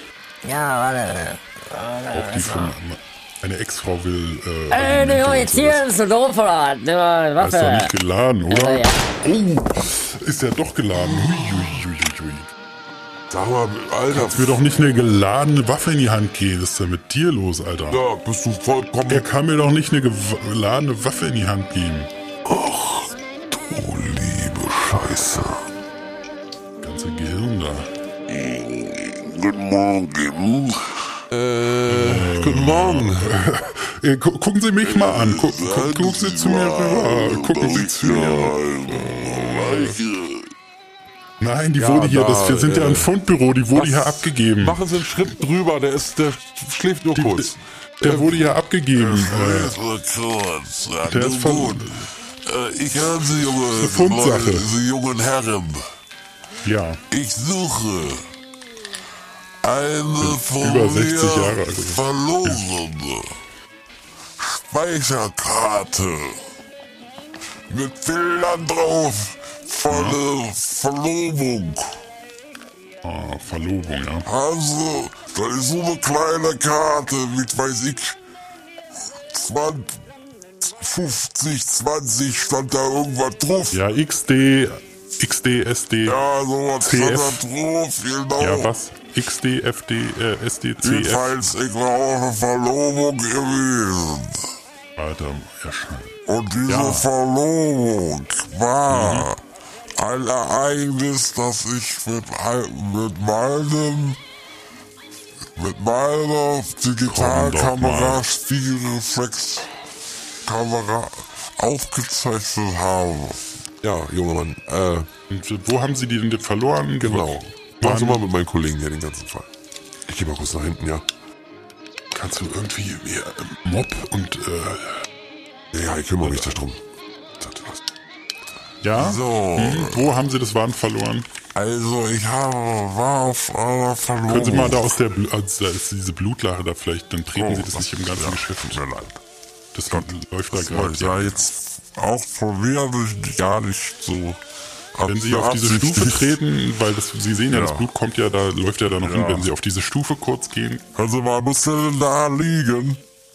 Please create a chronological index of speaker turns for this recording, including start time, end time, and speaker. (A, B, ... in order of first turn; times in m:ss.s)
0:00.4-0:02.7 A
0:02.1-0:05.8 B
0:04.7-0:07.9 A
0:07.4-0:12.5 B
0:08.5-0:09.0 A
0:13.3-0:14.6 C
0:14.1-0:18.0 B
0:17.9-0:19.3 C
0:19.1-0:22.1 B
0:22.4-0:25.6 C
0:26.8-0:27.9 B
0:28.3-0:30.9 D
0:31.3-0:33.4 C
0:31.9-0:40.0 B
0:34.8-0:40.4 D
0:41.4-0:44.8 B
0:41.8-0:43.1 C
0:43.7-0:48.5 C
0:47.2-0:49.8 B
0:48.9-0:51.9 D
0:51.0-0:52.1 B
0:52.4-0:55.8 D
0:53.7-0:54.7 B
0:56.6-0:57.0 B
0:57.1-0:58.2 D
0:59.6-1:03.3 D
1:00.2-1:02.6 B
1:04.4-1:06.4 D
1:07.7-1:11.9 D
1:09.9-1:10.2 B
1:13.0-1:14.2 B
1:14.2-1:18.2 D
1:19.3-1:20.0 D
1:20.6-1:23.8 D
1:23.7-1:26.2 B
1:26.0-1:28.7 D
1:26.8-1:27.4 B
1:28.4-1:31.4 B
1:30.8-1:34.4 D
1:35.0-1:36.1 B
1:36.2-1:39.4 D
1:36.7-1:37.1 B
1:38.9-1:39.3 B
1:40.0-1:44.2 D
1:45.6-1:49.7 D
1:47.1-1:48.2 B
1:50.4-1:53.4 D
1:53.8-1:55.1 C
1:55.3-1:58.2 B
1:57.0-1:59.5 C
2:00.1-2:01.0 C
2:02.1-2:05.0 B
2:05.7-2:06.8 C
2:06.2-2:06.6 B
2:07.4-2:07.8 C
2:08.8-2:11.3 B
2:08.9-2:10.1 D
2:11.5-2:14.8 D
2:14.3-2:18.8 B
2:17.3-2:19.2 D
2:19.7-2:21.5 B
2:19.9-2:24.4 D
2:24.9-2:26.4 D
2:25.1-2:30.8 B
2:27.5-2:27.9 D
2:29.0-2:29.5 D
2:30.9-2:33.0 D